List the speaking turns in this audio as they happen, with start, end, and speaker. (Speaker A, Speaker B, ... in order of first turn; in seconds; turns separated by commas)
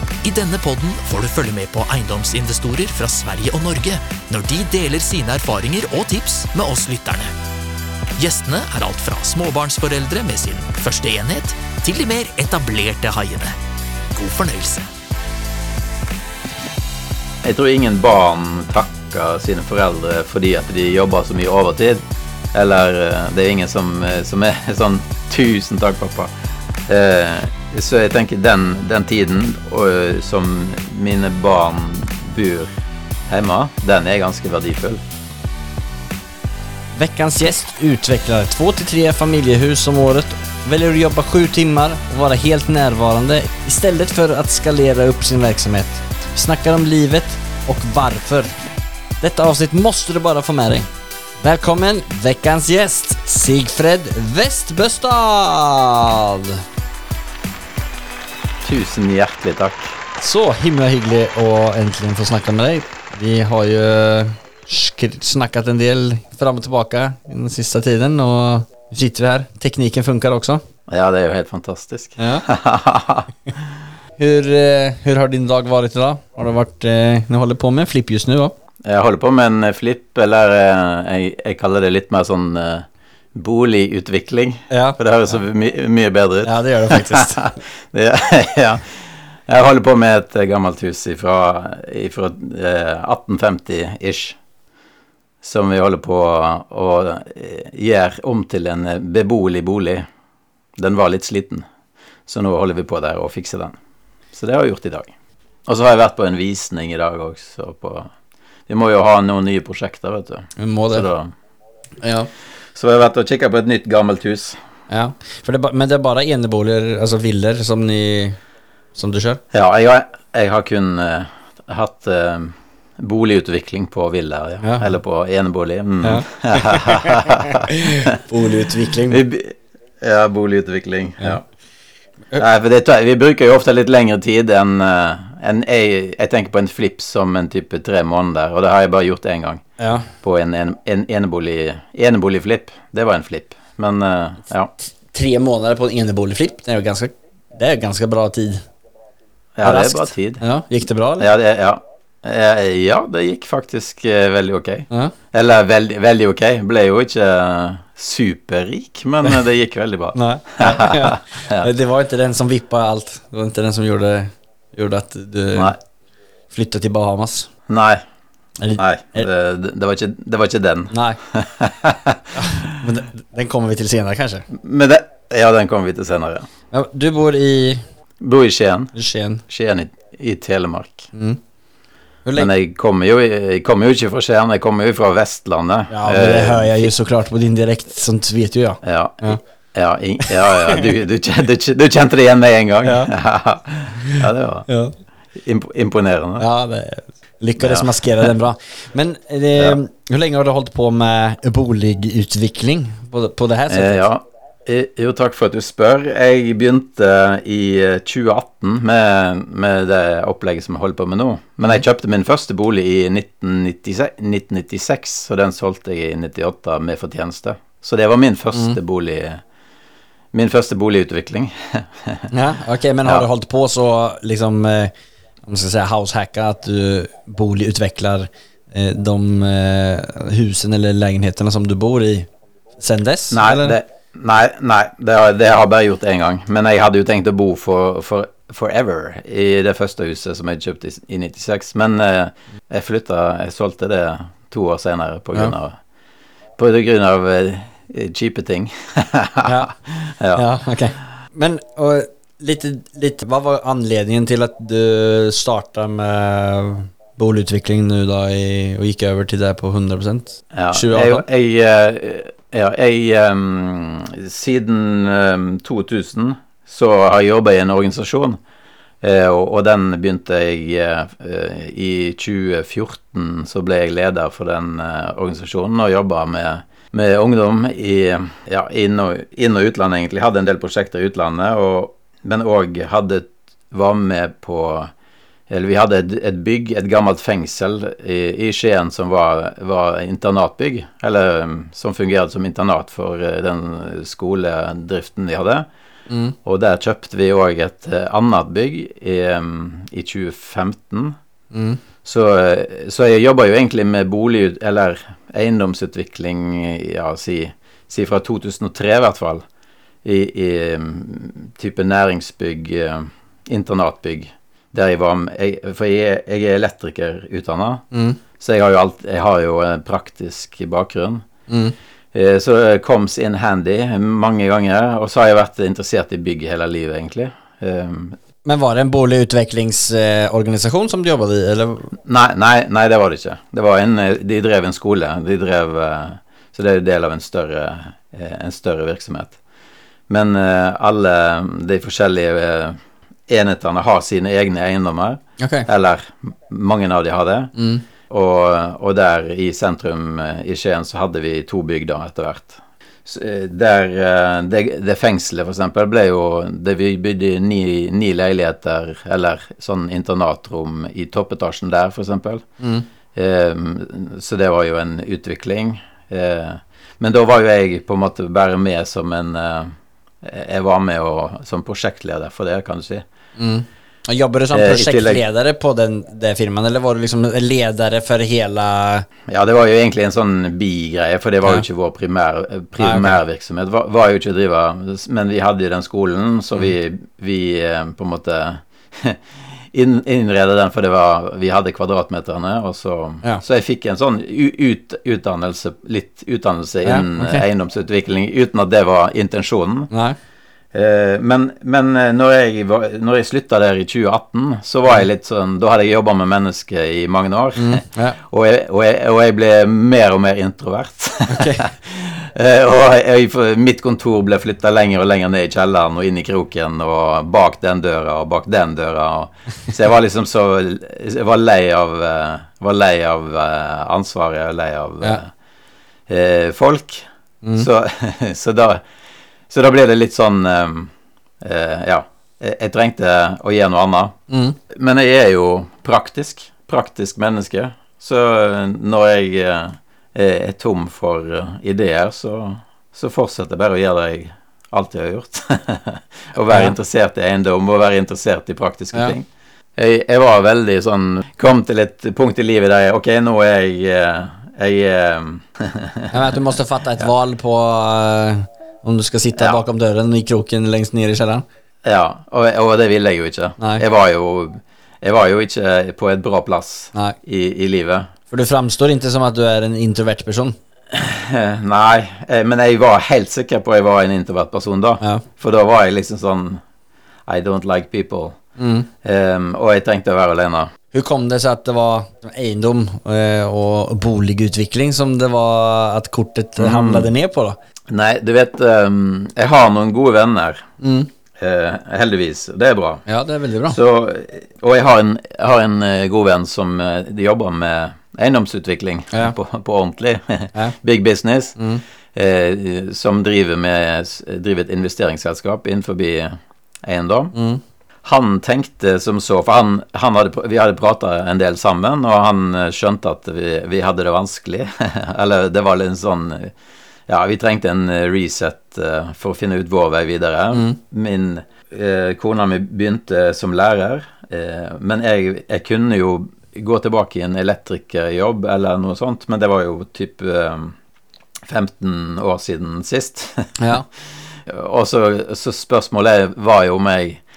Speaker A: 0.2-7.3, Speaker A: 8.2-13.6, Speaker A: 14.2-14.9, Speaker B: 17.4-22.0, Speaker B: 22.5-26.3, Speaker B: 26.9-32.7, Speaker B: 33.3-35.0, Speaker C: 36.9-48.6, Speaker C: 49.2-50.9, Speaker C: 51.4-56.6, Speaker B: 58.6-60.0, Speaker C: 60.2-70.6, Speaker B: 70.9-73.7, Speaker C: 72.2-72.5, Speaker C: 74.2-78.5, Speaker B: 78.8-94.4, Speaker C: 84.7-85.0, Speaker C: 86.4-87.5, Speaker B: 95.4-100.1, Speaker B: 100.8-101.7, Speaker B: 102.3-103.8, Speaker B: 104.3-105.1, Speaker B: 105.7-108.1, Speaker B: 108.7-111.3, Speaker C: 110.6-111.1, Speaker C: 112.0-112.3, Speaker B: 112.8-114.6, Speaker C: 114.9-118.4, Speaker C: 119.0-119.4, Speaker B: 119.5-128.2, Speaker C: 124.6-124.9, Speaker C: 126.0-129.2, Speaker B: 129.1-131.4, Speaker B: 132.4-139.6, Speaker C: 139.8-140.1, Speaker B: 140.2-144.7, Speaker C: 145.1-148.6, Speaker B: 149.6-150.4, Speaker C: 149.6-151.3, Speaker B: 151.2-161.7, Speaker C: 160.1-165.7, Speaker C: 166.5-167.5, Speaker B: 167.7-168.0, Speaker C: 168.6-169.3, Speaker B: 168.8-172.7, Speaker C: 170.9-171.2, Speaker C: 172.3-174.5, Speaker B: 174.5-176.5, Speaker C: 176.7-177.8, Speaker B: 178.2-178.9, Speaker C: 178.9-179.4, Speaker B: 179.5-181.1, Speaker C: 181.1-181.4, Speaker C: 182.2-182.5, Speaker B: 182.4-186.9, Speaker C: 185.9-189.4, Speaker B: 188.8-194.7, Speaker C: 190.2-190.8, Speaker C: 192.8-193.1, Speaker C: 194.1-194.9, Speaker B: 195.4-196.5, Speaker C: 196.4-204.1, Speaker B: 197.6-198.3, Speaker B: 203.7-219.4, Speaker B: 220.3-222.3, Speaker C: 222.3-224.9, Speaker C: 225.4-232.3, Speaker C: 232.8-233.8, Speaker B: 233.3-245.8, Speaker B: 246.6-250.4, Speaker C: 249.4-249.7, Speaker C: 250.3-261.2, Speaker B: 260.5-268.4, Speaker B: 269.0-284.9, Speaker B: 285.5-295.7, Speaker C: 296.1-296.4, Speaker B: 296.4-301.2, Speaker C: 301.5-301.8, Speaker B: 302.1-309.4, Speaker B: 310.0-317.8, Speaker C: 317.9-318.2, Speaker B: 318.4-321.2, Speaker C: 321.5-321.8, Speaker B: 322.1-328.2, Speaker C: 328.4-331.9, Speaker B: 332.1-339.4, Speaker B: 340.1-362.5, Speaker C: 345.4-345.7, Speaker C: 347.6-347.8, Speaker C: 362.6-362.9, Speaker B: 363.1-373.1, Speaker C: 373.4-379.1, Speaker B: 374.5-375.2, Speaker B: 379.3-399.9, Speaker C: 382.8-383.2, Speaker C: 396.8-397.4, Speaker C: 399.9-400.2, Speaker B: 400.7-425.3, Speaker C: 407.6-408.2, Speaker C: 411.3-411.6, Speaker B: 426.1-428.8, Speaker B: 429.5-434.2, Speaker C: 434.3-434.6, Speaker B: 434.7-456.4, Speaker C: 456.1-461.4, Speaker B: 459.4-459.6, Speaker B: 461.8-468.1, Speaker C: 463.6-463.8, Speaker C: 468.3-470.6, Speaker B: 470.9-476.6, Speaker B: 477.3-478.4, Speaker C: 478.6-478.9, Speaker B: 479.0-480.7, Speaker C: 480.9-487.6, Speaker B: 486.6-487.1, Speaker B: 487.9-490.7, Speaker C: 490.8-491.1, Speaker B: 491.4-493.0, Speaker C: 493.1-493.8, Speaker B: 493.7-501.6, Speaker C: 501.6-501.8, Speaker B: 502.1-507.3, Speaker C: 507.3-507.6, Speaker B: 508.0-516.5, Speaker B: 517.1-530.8, Speaker C: 520.5-520.8, Speaker B: 531.4-533.8, Speaker C: 533.6-533.9, Speaker B: 534.5-537.2